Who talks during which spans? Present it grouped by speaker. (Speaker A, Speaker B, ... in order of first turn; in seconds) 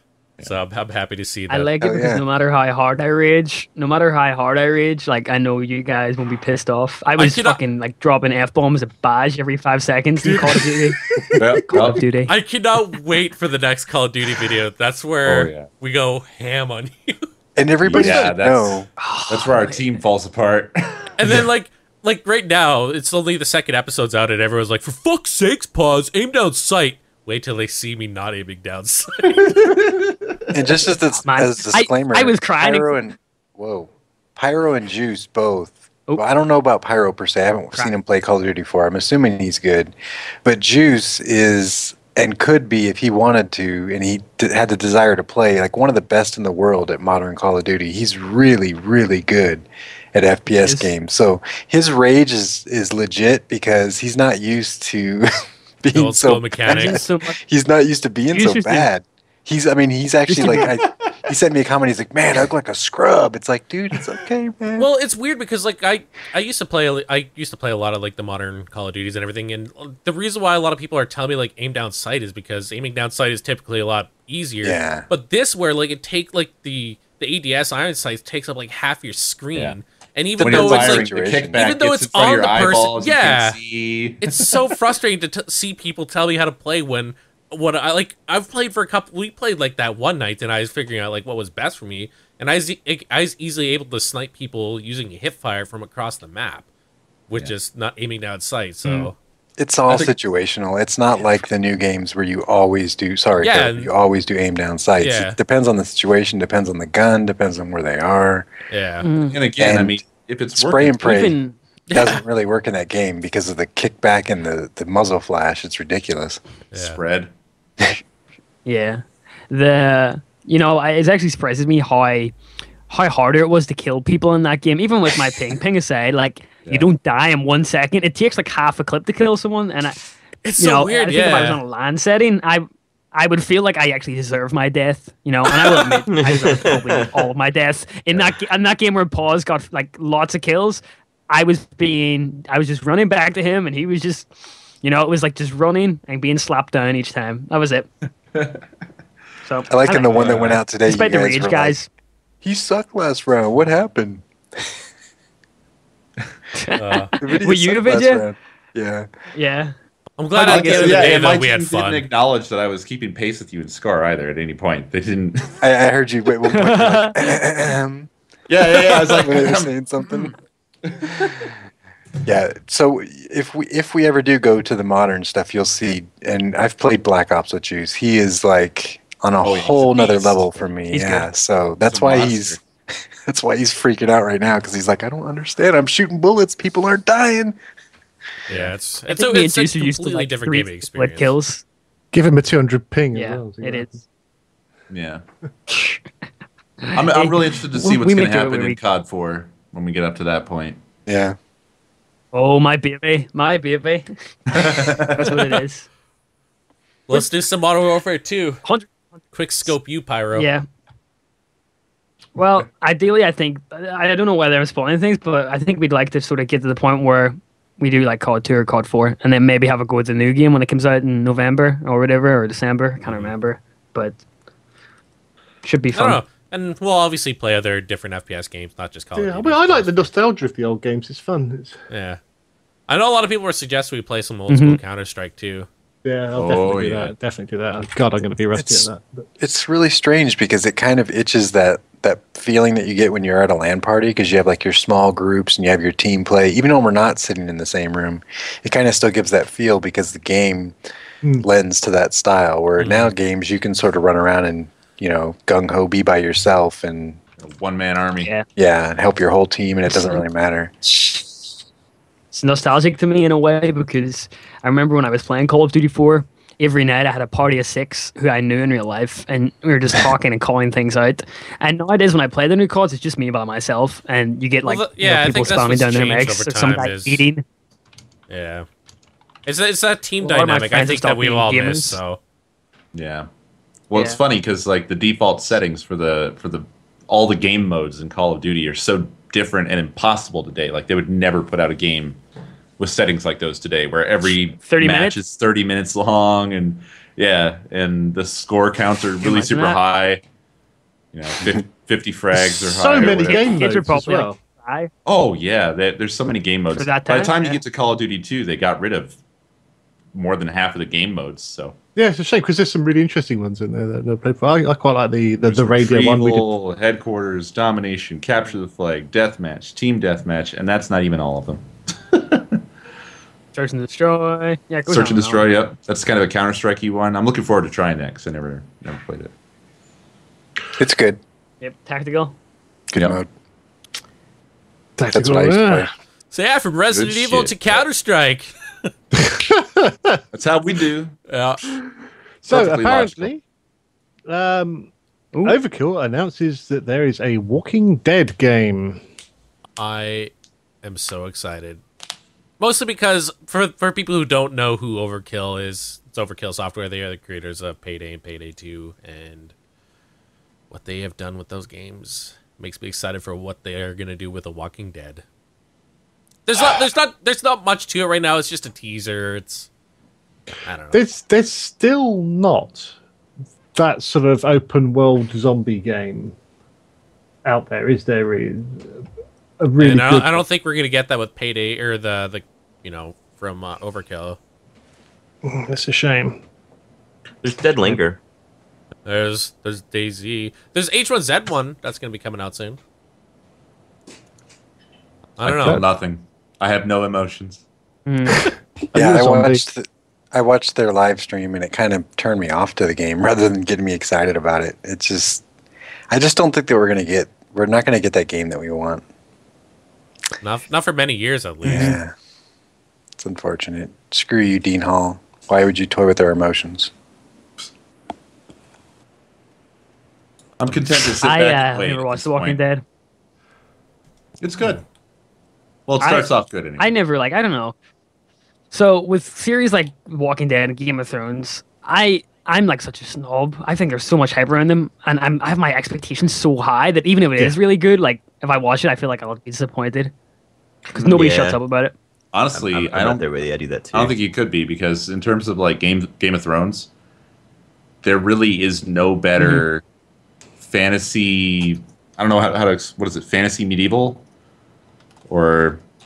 Speaker A: 0.4-1.7, 7.2-7.6, 12.3-17.3, 21.2-29.4, 55.9-57.0, 64.8-83.6, 84.2-96.7, 97.3-99.2, 103.4-103.9, 105.0-105.4, 108.7-109.1, 116.7-117.0, 130.4-131.6, 156.8-157.1, 160.2-162.1, 188.5-191.3, 207.1-208.6, 209.3-210.5, 223.1-223.3, 225.9-230.1, 231.9-232.2, 232.9-235.7, 252.8-253.1, 274.7-277.2, 278.3-278.7, 279.5-282.2, 336.3-338.9, 341.3-341.6, 349.8-350.3, 350.8-351.8, 352.6-359.5, 360.7-365.2, 366.5-369.7, 370.6-371.0, 379.8-384.4, 389.1-392.8, 395.4-395.8, 410.4-412.0
Speaker B: 1.5-11.0, 11.7-12.3, 19.0-19.8, 31.3-32.9, 50.6-50.9, 56.7-57.4, 58.3-58.9, 60.3-60.6, 109.0-109.4, 111.0-111.6, 118.7-122.3, 122.9-130.0, 130.6-144.3, 144.8-147.9, 149.4-151.9, 156.6-158.2, 159.3-159.7, 160.3-161.3, 166.5-167.2, 180.9-181.3, 189.1-191.6, 193.1-193.9, 195.7-196.0, 196.8-198.8, 202.3-205.9, 210.3-210.7, 212.4-224.2, 225.6-226.2, 234.5-234.8, 262.3-277.4, 280.2-282.0, 283.9-284.2, 294.6-295.2, 299.2-299.8, 303.2-304.9, 306.7-307.6, 323.5-325.4, 331.6-332.4, 398.1-398.5, 411.6-411.9, 421.1-422.8, 426.0-427.8, 428.7-440.1, 440.9-441.9, 449.4-449.6
Speaker C: 1.8-2.2, 17.6-18.9, 30.5-55.3, 55.8-64.9, 74.6-75.1, 80.4-81.7, 99.6-108.5, 109.5-111.4, 111.9-116.4, 149.7-151.8, 152.4-154.7, 157.2-159.1, 165.6-168.1, 168.7-170.3, 172.2-182.6, 183.3-187.6, 201.1-201.4, 238.6-238.9, 239.4-250.8, 251.4-257.2, 258.6-260.9, 330.8-331.2, 332.9-333.3, 335.1-335.9, 398.9-405.4, 406.1-409.0, 411.6-412.1, 413.2-416.9
Speaker D: 11.4-12.0, 15.2-15.7, 17.8-21.4, 29.3-30.4, 60.5-61.2, 80.4-84.6, 109.3-111.0, 116.7-117.3, 148.3-148.6, 150.1-150.6, 160.4-165.6, 168.5-170.3, 170.9-171.5, 179.4-180.5, 181.9-182.6, 188.5-188.7, 194.9-195.2, 196.9-200.8, 204.5-205.6, 236.4-237.1, 257.4-258.4, 282.9-283.3, 283.9-292.2, 292.8-300.2, 301.1-303.5, 305.1-309.2, 310.1-311.8, 315.4-322.6, 324.9-329.3, 336.9-337.8, 340.3-341.1, 342.5-343.3, 395.4-397.6, 420.6-422.6, 424.4-424.8, 425.9-426.9, 442.3-443.2, 443.9-446.9, 448.0-449.8, 450.6-454.2, 455.3-455.8
Speaker E: 136.1-137.1, 387.4-388.2, 440.9-441.6, 442.5-444.2
Speaker F: 192.1-194.0, 229.2-231.8, 236.0-239.2, 302.4-304.4, 312.0-316.5, 335.0-335.9, 339.1-340.2, 342.4-343.4, 344.3-344.9, 345.4-349.0, 370.9-372.9, 373.7-376.4, 377.4-379.1, 379.6-380.4, 385.4-386.4, 398.9-399.6